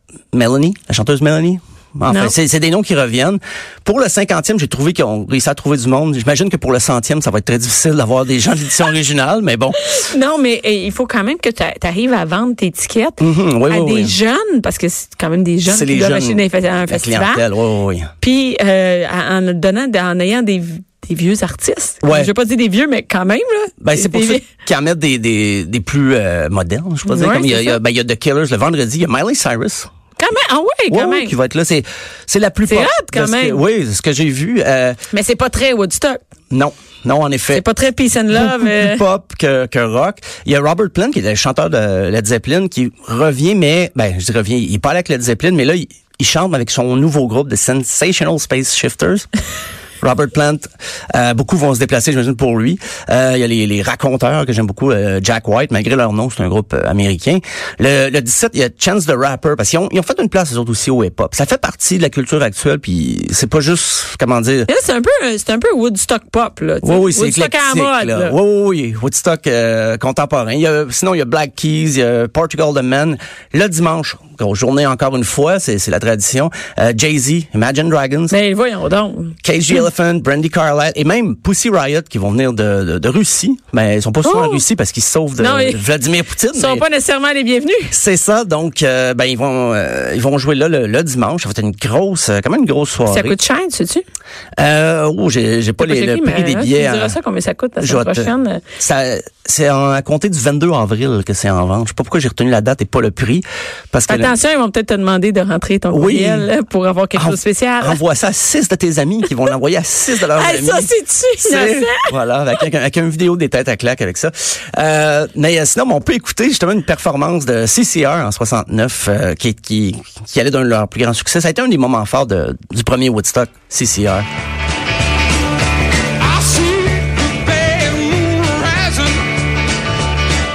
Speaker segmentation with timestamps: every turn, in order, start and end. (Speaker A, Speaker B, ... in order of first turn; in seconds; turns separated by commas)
Speaker A: 0.3-9.8, Speaker B: 2.1-2.4, Speaker B: 9.8-17.5, Speaker A: 13.2-14.2, Speaker A: 15.7-18.1, Speaker B: 18.2-24.4, Speaker A: 22.0-22.3, Speaker A: 23.8-29.9, Speaker B: 27.1-27.8, Speaker B: 30.2-31.3, Speaker A: 30.9-35.0, Speaker B: 32.7-33.6, Speaker B: 35.1-36.2, Speaker A: 36.5-37.6, Speaker B: 37.5-39.0, Speaker A: 38.3-49.3, Speaker A: 50.0-64.7, Speaker B: 64.7-68.4, Speaker A: 66.8-78.4, Speaker B: 78.3-79.4, Speaker A: 79.4-86.9, Speaker B: 84.2-84.6, Speaker B: 85.4-85.8, Speaker B: 86.5-87.9, Speaker A: 87.9-93.4, Speaker B: 93.1-94.0, Speaker A: 94.6-97.2, Speaker B: 95.8-98.6, Speaker A: 97.8-104.3, Speaker B: 104.1-108.0, Speaker A: 105.9-106.5, Speaker A: 107.1-124.3, Speaker B: 110.3-112.1, Speaker C: 126.2-129.3